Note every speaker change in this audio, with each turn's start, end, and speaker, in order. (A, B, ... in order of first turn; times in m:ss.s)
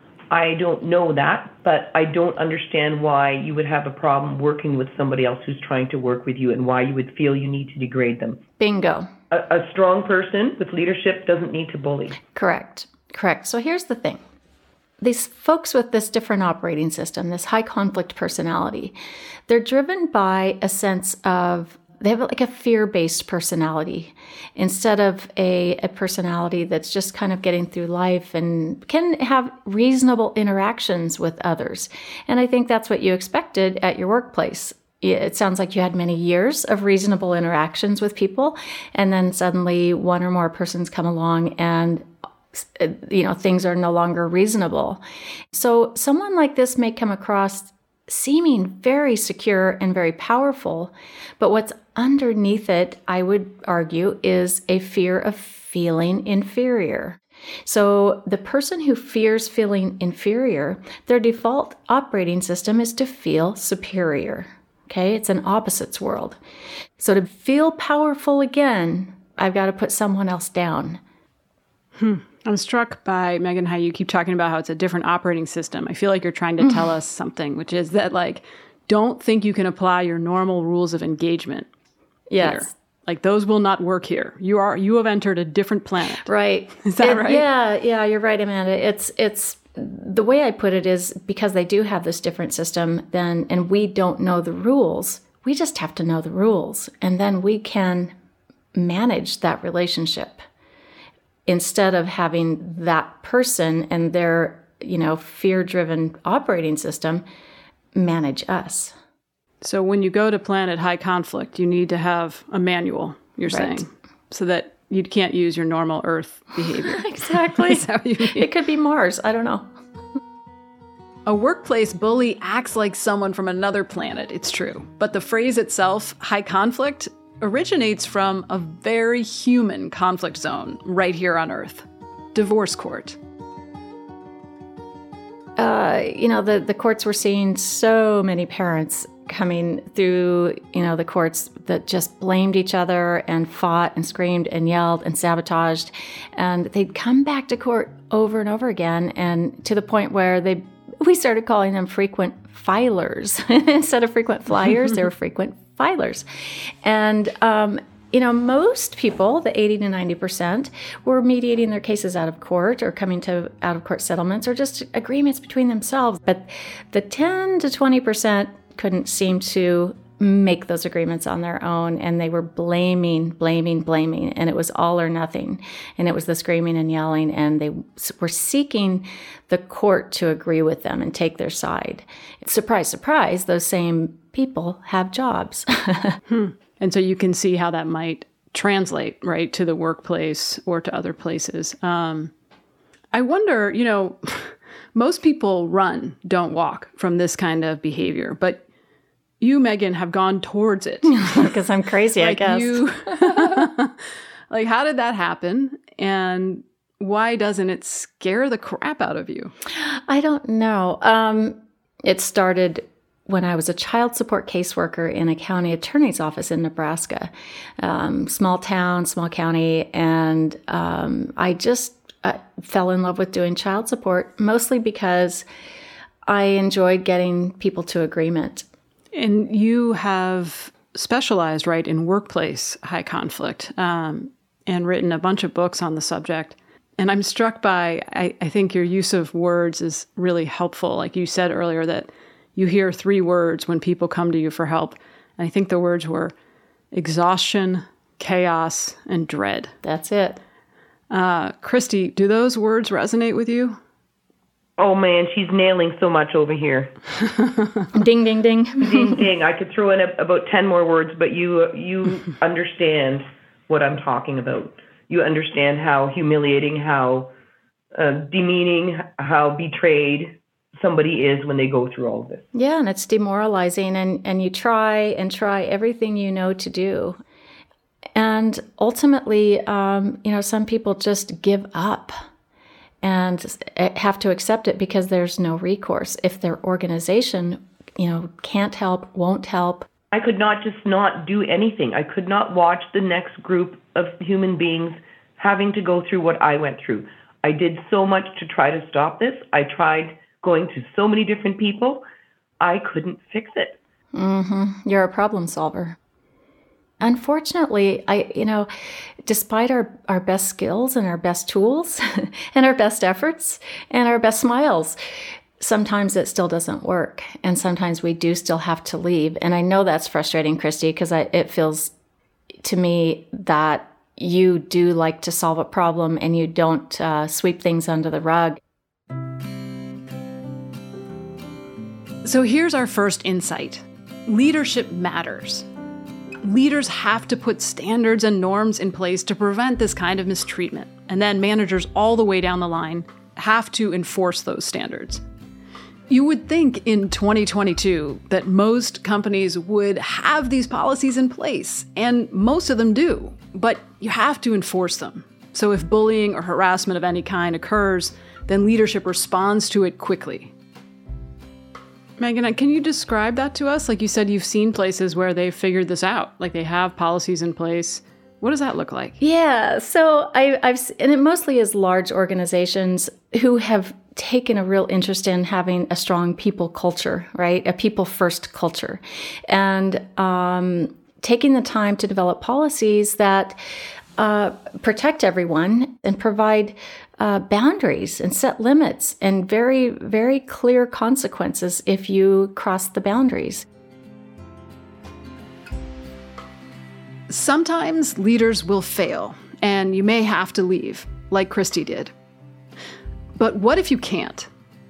0:00.3-0:08.4 A
0:08.6-0:09.1 B
0:09.3-0:12.2 A
0:12.4-0:14.2 B
0:15.0-0:19.0 B
0:19.5-1:06.4 B
1:07.0-1:11.0 B
1:12.0-1:21.7 C
1:16.6-1:16.9 B
1:22.3-1:22.7 B
1:22.4-1:26.3 C
1:26.2-1:38.1 B
1:26.8-1:27.4 C
1:38.8-1:40.4 B
1:41.5-1:47.2 B
1:48.0-1:49.0 B
1:49.6-1:58.4 C
1:53.5-1:53.8 B
1:56.7-1:59.7 B
2:01.3-2:13.2 C
2:15.6-3:06.2 B
3:06.3-3:12.3 C
3:13.1-3:18.6 C
3:19.4-3:21.4 C
3:21.0-3:23.6 B
3:22.2-3:24.0 C
3:24.5-3:29.5 C
3:29.8-3:45.4 B
3:46.3-3:48.7 B
3:49.1-4:06.3 C
4:06.9-4:09.7 C
4:09.8-4:10.4 B
4:11.1-4:13.8 C
4:14.8-4:16.9 A
4:18.0-4:19.3 B
4:18.8-4:27.3 A
4:27.9-4:32.5 A
4:32.5-4:37.2 B
4:38.2-4:42.2 B
4:43.0-4:49.9 B
4:50.1-5:02.0 A
5:02.6-5:03.8 A
5:04.1-5:06.0 B
5:07.0-5:08.7 B
5:09.2-5:15.0 B
5:15.6-5:21.9 B
5:22.6-5:28.6 B
5:32.2-5:35.7 C
5:36.4-5:45.2 C
5:46.1-6:00.5 C
6:02.2-6:09.2 C
6:09.2-6:23.6 B
6:24.2-6:33.7 B
6:37.3-6:42.1 C
6:43.4-6:44.5 C